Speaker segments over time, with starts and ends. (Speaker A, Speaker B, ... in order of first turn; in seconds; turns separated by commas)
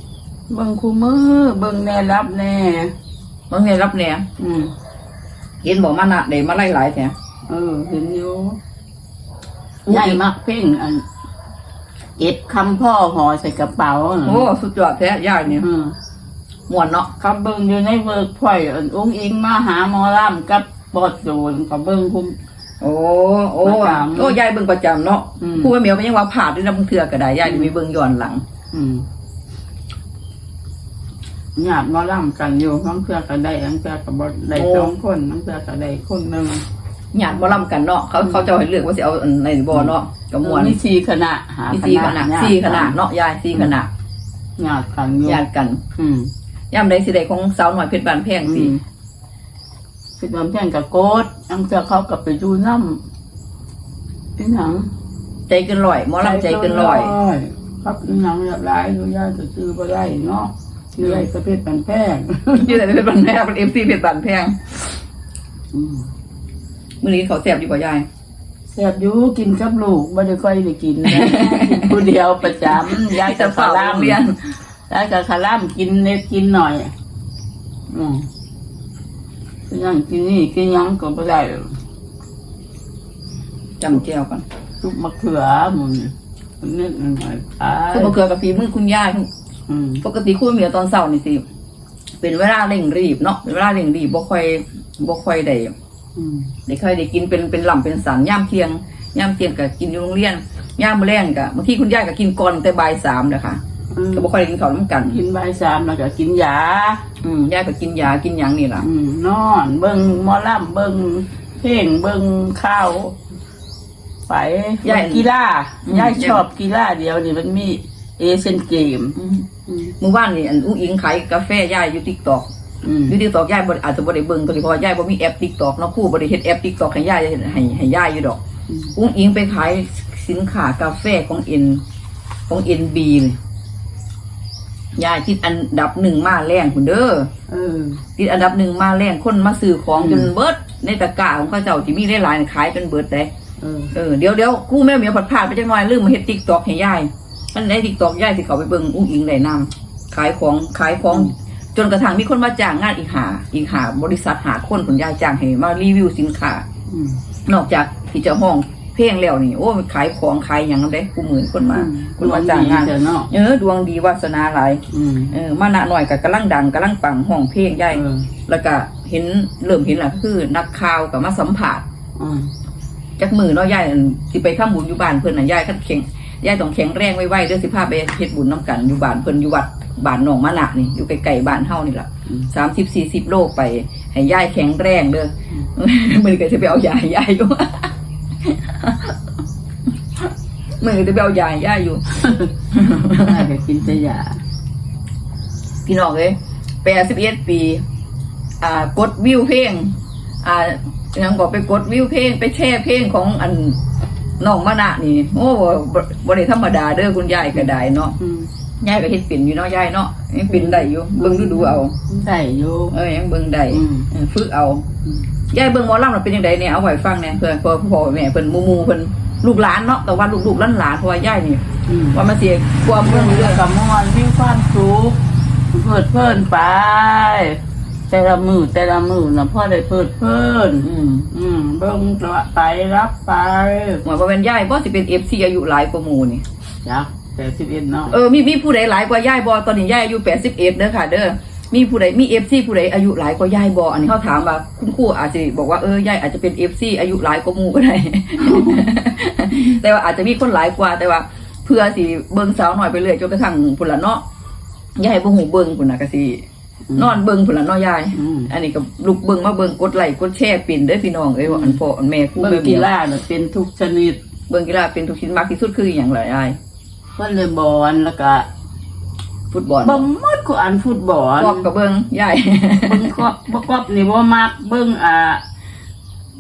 Speaker A: 0.5-2.9, Speaker B: 3.5-4.2, Speaker A: 4.4-4.7, Speaker B: 5.6-7.1, Speaker A: 7.5-8.6, Speaker B: 9.9-10.2, Speaker A: 9.9-11.1, Speaker A: 12.2-14.5, Speaker B: 14.2-15.7, Speaker A: 15.5-16.0, Speaker B: 16.7-17.1, Speaker A: 17.2-22.4, Speaker B: 22.8-28.4, Speaker A: 23.6-24.4, Speaker A: 25.4-25.7, Speaker A: 27.4-27.7, Speaker A: 28.7-29.1, Speaker A: 31.6-36.6, Speaker B: 34.5-34.9, Speaker B: 37.1-40.8, Speaker A: 40.4-43.0, Speaker B: 41.7-43.9, Speaker A: 44.6-45.4, Speaker B: 45.3-45.8, Speaker A: 46.0-46.3, Speaker B: 46.7-48.8, Speaker A: 48.5-48.8, Speaker A: 50.2-53.0, Speaker A: 54.4-54.9, Speaker B: 55.5-57.1, Speaker A: 56.2-62.9, Speaker B: 62.5-65.0, Speaker A: 65.7-66.1, Speaker B: 67.0-68.1, Speaker A: 68.7-74.2, Speaker B: 71.1-74.4, Speaker A: 74.9-76.9, Speaker A: 77.9-78.3, Speaker A: 79.7-81.7, Speaker B: 83.8-84.4, Speaker A: 84.8-88.2, Speaker B: 87.9-89.3, Speaker A: 89.7-90.0, Speaker B: 90.0-91.4, Speaker B: 92.2-95.7, Speaker A: 96.2-96.5, Speaker B: 96.7-103.6, Speaker A: 103.9-104.3, Speaker B: 104.1-105.2, Speaker A: 105.1-107.0, Speaker B: 107.2-108.9, Speaker A: 108.8-113.2, Speaker A: 114.3-119.2, Speaker B: 114.8-115.3, Speaker B: 115.8-116.4, Speaker B: 119.2-119.5, Speaker A: 119.7-120.0, Speaker B: 120.0-122.5, Speaker A: 122.8-123.2, Speaker B: 123.1-128.4, Speaker B: 128.9-131.8, Speaker B: 132.5-133.4, Speaker B: 135.0-137.3, Speaker A: 137.5-138.0, Speaker B: 138.2-143.3, Speaker A: 140.0-140.3, Speaker A: 143.6-143.9, Speaker B: 143.9-156.7, Speaker A: 156.9-157.2, Speaker B: 157.5-171.8, Speaker A: 161.7-163.3, Speaker A: 164.9-165.3, Speaker A: 167.9-168.3, Speaker A: 172.2-172.5, Speaker B: 173.2-187.9, Speaker B: 188.4-189.1, Speaker B: 190.8-193.4, Speaker A: 193.2-194.4, Speaker B: 195.9-197.8, Speaker B: 198.6-203.8, Speaker B: 204.4-208.2, Speaker A: 208.2-208.5, Speaker B: 208.8-212.0, Speaker A: 210.5-213.0, Speaker B: 212.9-214.9, Speaker A: 213.7-214.1, Speaker B: 215.5-221.6, Speaker A: 221.9-222.2, Speaker B: 222.1-223.6, Speaker A: 223.0-234.0, Speaker B: 230.8-231.3, Speaker B: 234.0-236.4, Speaker A: 236.8-238.2, Speaker B: 238.1-254.2, Speaker A: 248.4-248.9, Speaker B: 255.0-256.4, Speaker A: 256.9-257.2, Speaker B: 256.9-262.9, Speaker A: 258.1-258.5, Speaker A: 261.4-261.8, Speaker A: 262.4-264.2, Speaker B: 264.5-266.6, Speaker A: 267.2-268.5, Speaker B: 269.5-270.0, Speaker A: 269.8-271.7, Speaker B: 271.4-273.1, Speaker A: 272.8-275.4